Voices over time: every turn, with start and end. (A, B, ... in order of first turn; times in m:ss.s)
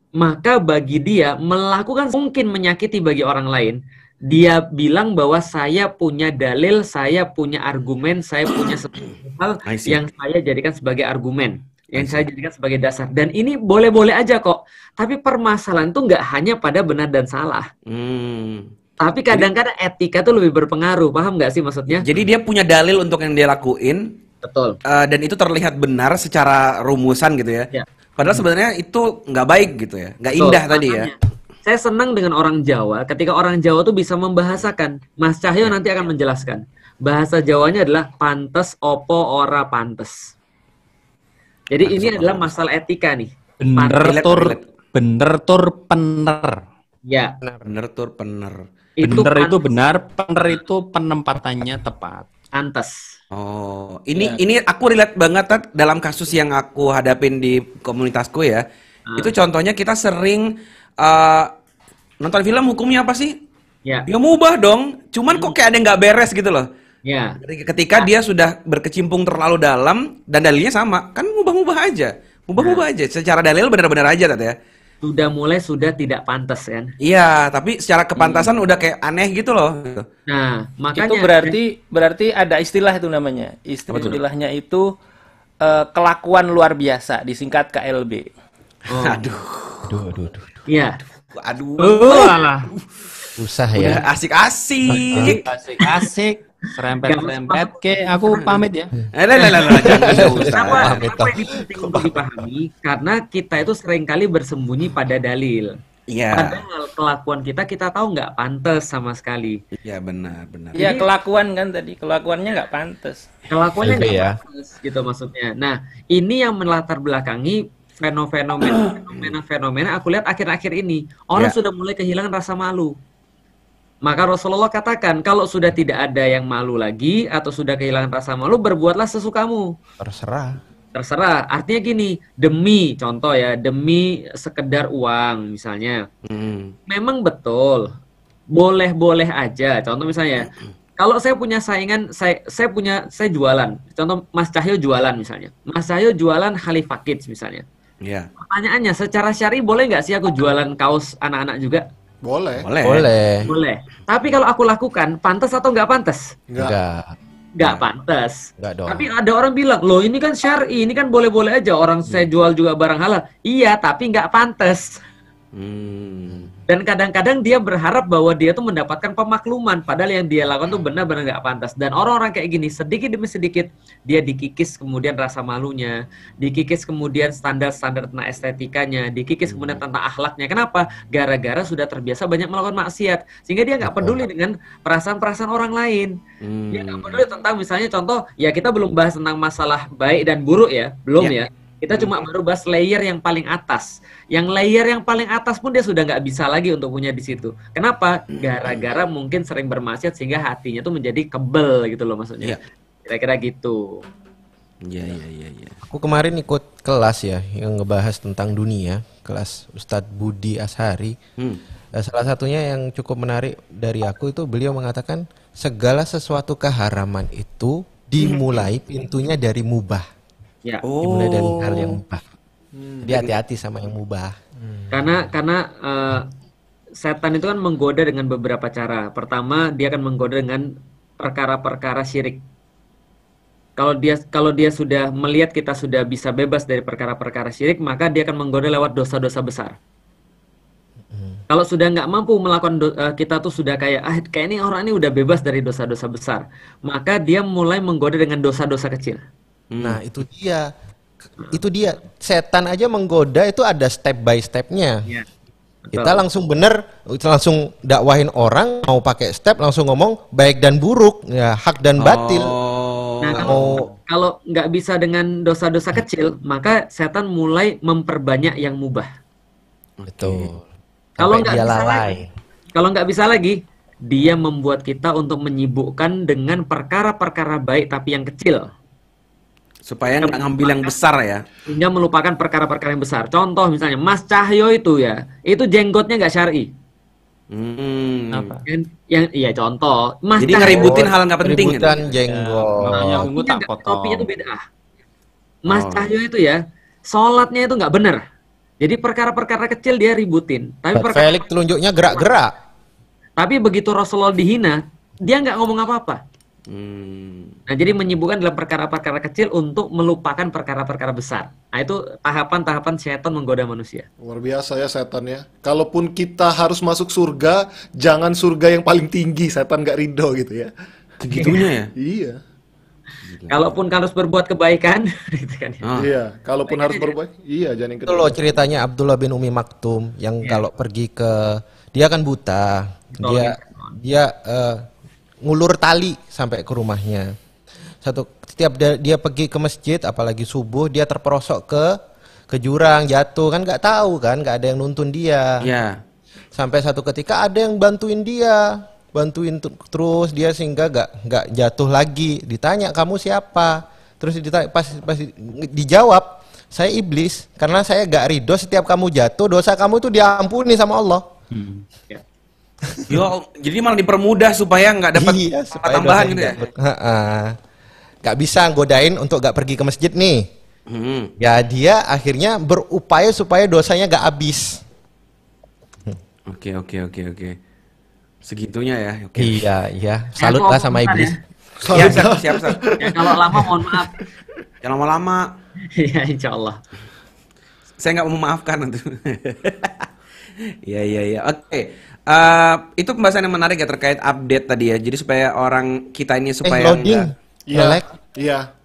0:00.2-0:17.6 A
0:09.6-0:10.0 B
0:12.0-0:12.3 B
0:17.9-0:18.7 B
0:19.0-0:22.1 A
0:21.9-0:24.1 B
0:24.4-0:24.8 A
0:24.8-0:31.1 B
0:27.7-0:28.4 A
0:30.4-0:40.3 A
0:41.7-0:44.2 A
0:41.8-0:42.5 B
0:43.6-0:46.6 C
0:44.0-0:44.6 B
0:47.0-0:47.4 A
0:47.6-0:48.6 B
0:49.0-0:49.6 A
0:49.0-0:52.3 C
0:52.5-0:53.0 A
0:53.3-0:58.6 B
0:59.2-1:01.5 B
1:02.2-1:03.3 B
1:04.0-1:06.7 B
1:07.0-1:07.4 A
1:07.4-1:14.5 B
1:12.6-1:12.8 A
1:15.0-1:16.9 A
1:17.0-1:20.0 B
1:18.2-1:18.5 A
1:20.3-1:21.6 A
1:20.9-1:24.8 D
1:23.9-1:24.2 B
1:25.6-1:28.2 D
1:28.9-1:29.3 A
1:28.9-1:30.0 B
1:29.9-1:30.5 E
1:30.7-1:31.0 A
1:31.3-1:32.3 B
1:31.8-1:32.7 C
1:33.4-1:34.0 E
1:33.8-1:35.4 B
1:35.0-1:35.4 A
1:35.4-1:38.9 C
1:37.1-1:37.8 A
1:39.1-1:41.0 B
1:39.7-1:42.2 E
1:39.8-1:45.8 A
1:46.1-1:46.6 B
1:46.3-1:49.6 A
1:49.8-1:50.8 B
1:50.7-1:51.1 A
1:50.8-1:53.3 D
1:53.5-2:02.9 A
1:53.8-1:54.4 E
1:58.6-1:59.3 B
2:04.0-2:09.7 A
2:10.0-2:10.6 E
2:10.9-2:16.1 A
2:16.3-2:16.7 B
2:16.9-2:17.9 A
2:18.5-2:27.6 A
2:28.4-2:31.8 A
2:32.2-2:32.6 F
2:32.6-2:33.5 B
2:32.8-2:33.5 E
2:33.5-2:36.3 A
2:36.5-2:36.8 F
2:36.6-2:37.2 E
2:37.6-2:44.9 A
2:38.6-2:39.1 E
2:45.5-2:46.5 B
2:46.7-3:06.2 A
2:59.5-2:59.8 B
3:03.9-3:04.2 E
3:06.4-3:07.2 B
3:06.7-3:24.0 A
3:18.3-3:18.8 B
3:24.8-3:25.8 B
3:25.9-3:31.2 E
3:32.0-3:40.0 E
3:38.2-3:38.7 B
3:40.8-3:42.0 B
3:41.0-3:42.2 E
3:43.0-3:44.4 E
3:44.9-3:46.3 A
3:47.0-3:52.4 A
3:53.8-3:59.8 A
4:01.5-4:09.2 A
4:09.7-4:10.0 B
4:09.8-4:10.7 E
4:11.5-4:15.1 E
4:15.9-4:16.2 A
4:15.9-4:22.5 E
4:22.0-4:23.7 B
4:23.2-4:29.1 A
4:23.4-4:23.9 E
4:30.0-4:30.5 B
4:30.1-4:30.6 E
4:31.2-4:32.2 A
4:31.2-4:32.3 E
4:32.7-4:38.7 A
4:39.9-4:41.4 B
4:40.2-4:40.9 A
4:41.7-4:46.7 A
4:47.5-4:48.5 B
4:48.3-4:48.6 C
4:48.7-4:51.1 A
4:50.4-4:52.0 B
4:50.6-4:53.2 E
4:52.3-4:54.3 C
4:52.9-4:54.6 A
4:55.7-4:58.2 A
4:55.7-4:56.1 B
4:58.8-5:01.5 A
5:00.9-5:02.5 E
5:03.4-5:06.2 A
5:06.7-5:07.5 B
5:07.7-5:14.1 A
5:14.2-5:20.7 F
5:21.2-5:21.9 B
5:21.3-5:21.7 A
5:22.0-5:22.4 F
5:23.2-5:23.7 B
5:23.5-5:25.8 A
5:25.8-5:26.1 B
5:26.0-5:28.4 F
5:26.7-5:27.1 A
5:28.1-5:34.8 E
5:33.2-5:33.9 A
5:35.4-5:37.3 E
5:38.0-5:42.0 E
5:42.5-5:45.7 E
5:45.6-5:46.0 B
5:46.5-6:01.3 E
6:01.5-6:01.8 C
6:03.1-6:06.6 B
6:05.1-6:07.6 E
6:08.2-6:10.5 E
6:10.9-6:11.3 B
6:11.4-6:14.8 E
6:16.5-6:17.6 B
6:18.4-6:19.6 B
6:19.4-6:21.3 E
6:20.4-6:21.4 A
6:21.8-6:23.7 F
6:21.9-6:22.8 B
6:23.0-6:24.1 A
6:24.8-6:25.5 B
6:26.0-6:26.8 A
6:28.0-6:30.1 B
6:30.8-6:37.3 B
6:36.6-6:38.0 E
6:37.7-6:38.7 F